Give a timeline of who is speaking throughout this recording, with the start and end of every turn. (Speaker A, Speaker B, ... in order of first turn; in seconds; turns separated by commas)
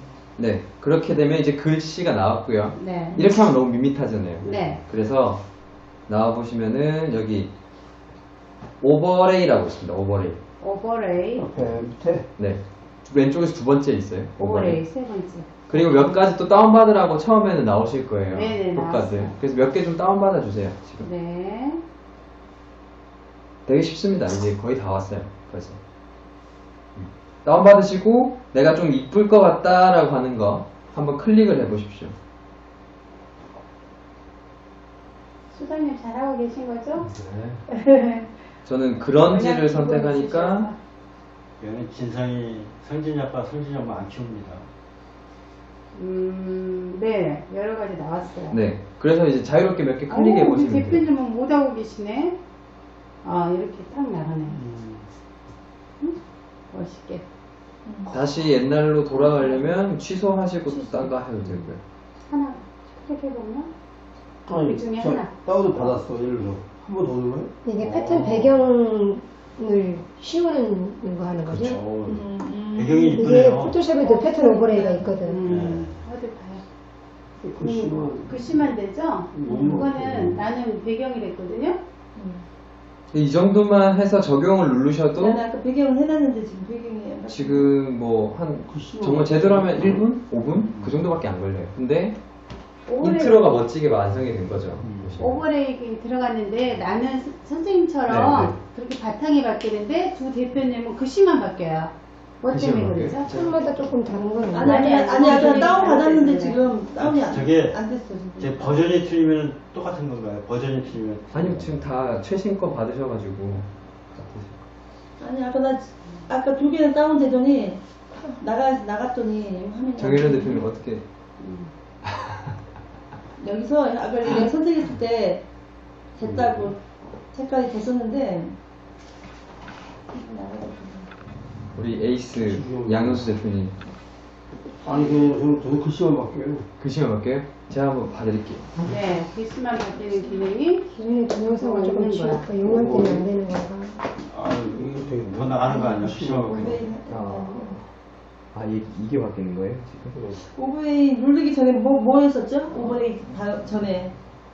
Speaker A: 0.4-5.4, Speaker B: 2.8-3.2, Speaker B: 4.4-4.8, Speaker C: 4.5-4.8, Speaker A: 6.1-7.5, Speaker A: 8.8-10.4, Speaker B: 10.6-11.5, Speaker D: 11.3-12.2, Speaker A: 12.4-14.8, Speaker B: 14.4-15.5, Speaker A: 15.7-21.1, Speaker B: 18.3-19.3, Speaker B: 21.0-21.8, Speaker A: 23.6-25.8, Speaker A: 26.9-32.1, Speaker B: 35.5-37.1, Speaker A: 37.0-37.6, Speaker B: 37.7-38.3, Speaker A: 38.6-40.7, Speaker B: 39.1-40.8, Speaker C: 41.6-44.6, Speaker B: 45.9-48.6, Speaker A: 48.5-51.0, Speaker B: 50.1-52.4, Speaker B: 53.2-54.6, Speaker D: 54.5-55.1, Speaker B: 56.7-57.2, Speaker E: 57.9-58.1, Speaker A: 58.1-61.8, Speaker B: 60.7-61.1, Speaker B: 62.3-63.7, Speaker B: 64.5-65.4, Speaker D: 64.5-67.5, Speaker F: 67.6-71.8, Speaker C: 67.8-68.5, Speaker A: 71.5-71.8, Speaker C: 71.5-73.8, Speaker E: 72.0-73.3, Speaker F: 73.1-75.5, Speaker B: 73.9-76.6, Speaker C: 75.5-76.0, Speaker D: 77.4-78.7, Speaker B: 77.6-81.8, Speaker D: 79.3-80.5, Speaker E: 79.5-79.9, Speaker E: 82.2-82.5, Speaker A: 83.1-85.4, Speaker E: 85.2-87.7, Speaker A: 87.3-92.2, Speaker D: 88.7-90.0, Speaker B: 92.9-93.5, Speaker A: 93.0-95.4, Speaker D: 94.8-95.3, Speaker B: 95.2-103.4, Speaker A: 98.1-98.5, Speaker A: 102.5-103.6, Speaker F: 103.2-105.0, Speaker E: 104.5-108.7, Speaker B: 104.6-106.6, Speaker C: 107.0-107.8, Speaker C: 108.4-111.8, Speaker A: 111.3-114.6, Speaker E: 115.2-120.6, Speaker A: 120.0-121.0, Speaker B: 121.4-121.7, Speaker A: 122.0-122.5, Speaker E: 123.4-125.4, Speaker E: 126.1-126.8, Speaker C: 126.2-126.7, Speaker E: 127.3-128.5, Speaker E: 130.1-131.1, Speaker A: 131.7-133.7, Speaker D: 132.4-133.3, Speaker D: 134.8-136.6, Speaker E: 134.9-135.3, Speaker A: 136.8-138.8, Speaker B: 138.8-140.9, Speaker F: 140.9-143.9, Speaker B: 141.5-142.5, Speaker D: 142.6-143.2, Speaker D: 144.3-147.8, Speaker C: 144.4-146.8, Speaker E: 145.7-147.8, Speaker A: 146.4-147.4, Speaker A: 148.5-150.2, Speaker D: 150.1-150.4, Speaker E: 150.6-154.1